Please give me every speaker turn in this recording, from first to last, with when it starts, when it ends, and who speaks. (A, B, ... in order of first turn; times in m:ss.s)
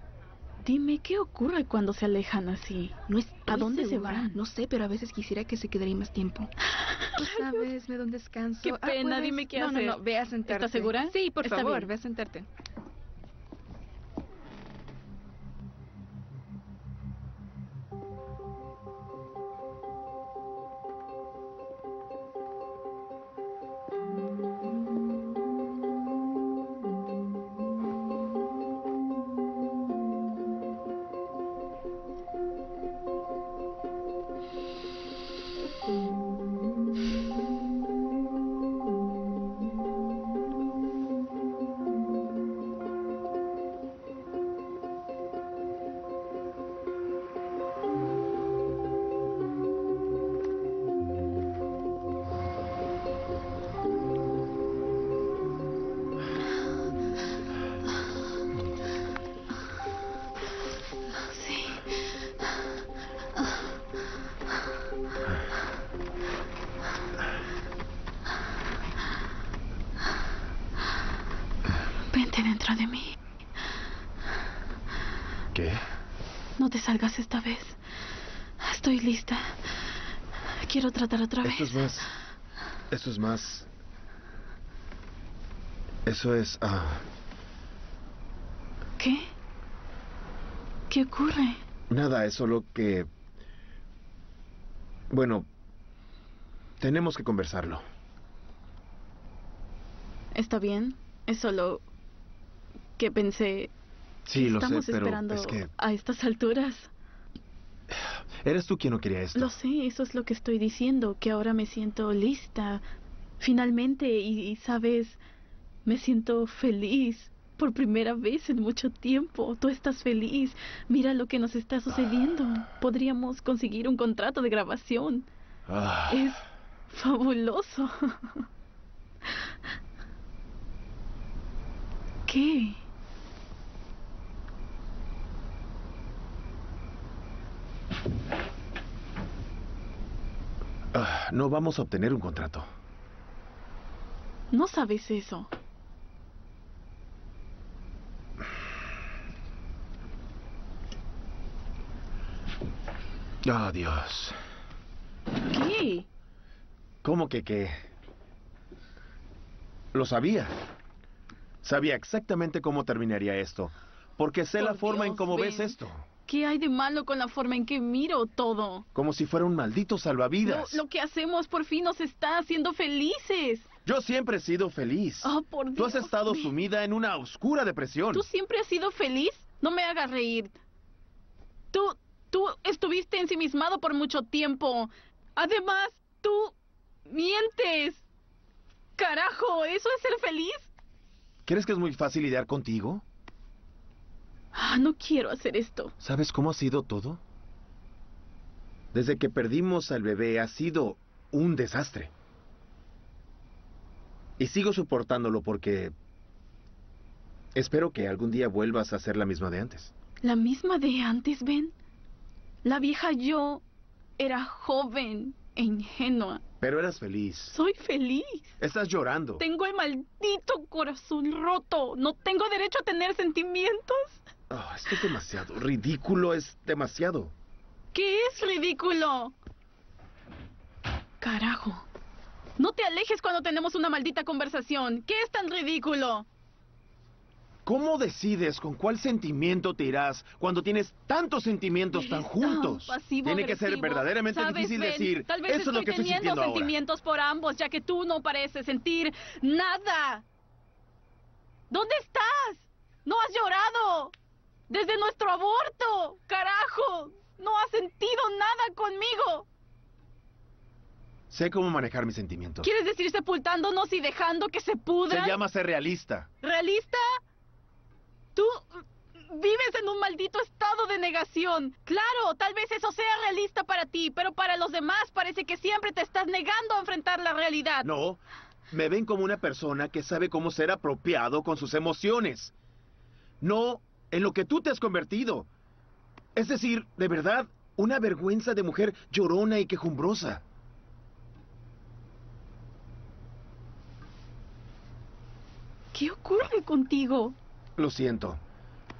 0:00.6-0:04.4 A
0:03.1-0:06.5 B
0:06.8-0:07.6 A
0:07.2-0:12.5 B
0:08.6-0:11.9 A
1:01.2-1:01.8 A
1:12.1-1:13.2 A
1:15.5-1:15.9 C
1:16.6-1:17.8 A
1:18.6-1:19.8 A
1:20.6-1:21.8 A
1:21.4-1:22.1 C
1:22.9-1:23.7 C
1:26.1-1:27.1 C
1:29.0-1:29.3 A
1:30.9-1:31.6 A
1:31.9-1:33.1 C
1:35.1-1:35.5 C
1:36.8-1:37.8 C
1:40.3-1:41.8 A
1:43.0-1:43.7 A
1:44.3-1:45.7 C
1:44.3-1:46.9 A
1:47.9-1:49.5 C
1:49.4-1:52.8 A
1:53.4-1:55.2 A
1:55.8-2:05.3 A
2:05.7-2:06.4 C
2:06.1-2:08.4 A
2:12.3-2:12.8 A
2:20.9-2:22.7 C
2:24.5-2:25.5 A
2:33.4-2:34.4 C
2:35.5-2:36.1 A
2:37.0-2:37.8 C
2:39.9-2:40.5 C
2:41.6-2:46.1 C
2:44.6-2:45.8 A
2:46.3-2:48.9 A
2:49.0-2:50.8 C
2:50.4-2:53.7 A
2:53.9-2:58.3 C
2:55.2-2:56.6 A
2:58.1-3:00.5 A
3:01.7-3:06.5 A
3:07.1-3:08.0 A
3:09.0-3:10.7 A
3:11.5-3:13.0 C
3:14.5-3:15.9 A
3:16.0-3:17.2 C
3:18.9-3:22.1 C
3:24.4-3:26.0 C
3:27.5-3:29.9 C
3:30.2-3:31.7 A
3:32.6-3:33.6 A
3:34.2-3:36.4 A
3:36.6-3:37.6 C
3:37.5-3:38.6 A
3:38.6-3:39.4 C
3:39.4-3:44.2 A
3:44.5-3:47.3 C
3:47.9-3:49.4 A
3:51.2-3:51.8 A
3:52.6-3:56.3 A
3:57.7-4:06.7 C
4:01.9-4:10.2 A
4:11.7-4:14.1 A
4:14.7-4:19.5 A
4:21.3-4:22.7 C
4:22.6-4:25.4 A
4:25.1-4:26.3 C
4:26.4-4:27.2 A
4:28.4-4:28.7 A
4:29.3-4:37.9 A
4:37.8-4:42.5 C
4:43.4-4:45.5 C
4:46.4-4:50.4 C
4:55.9-4:57.4 A
4:57.8-4:58.4 C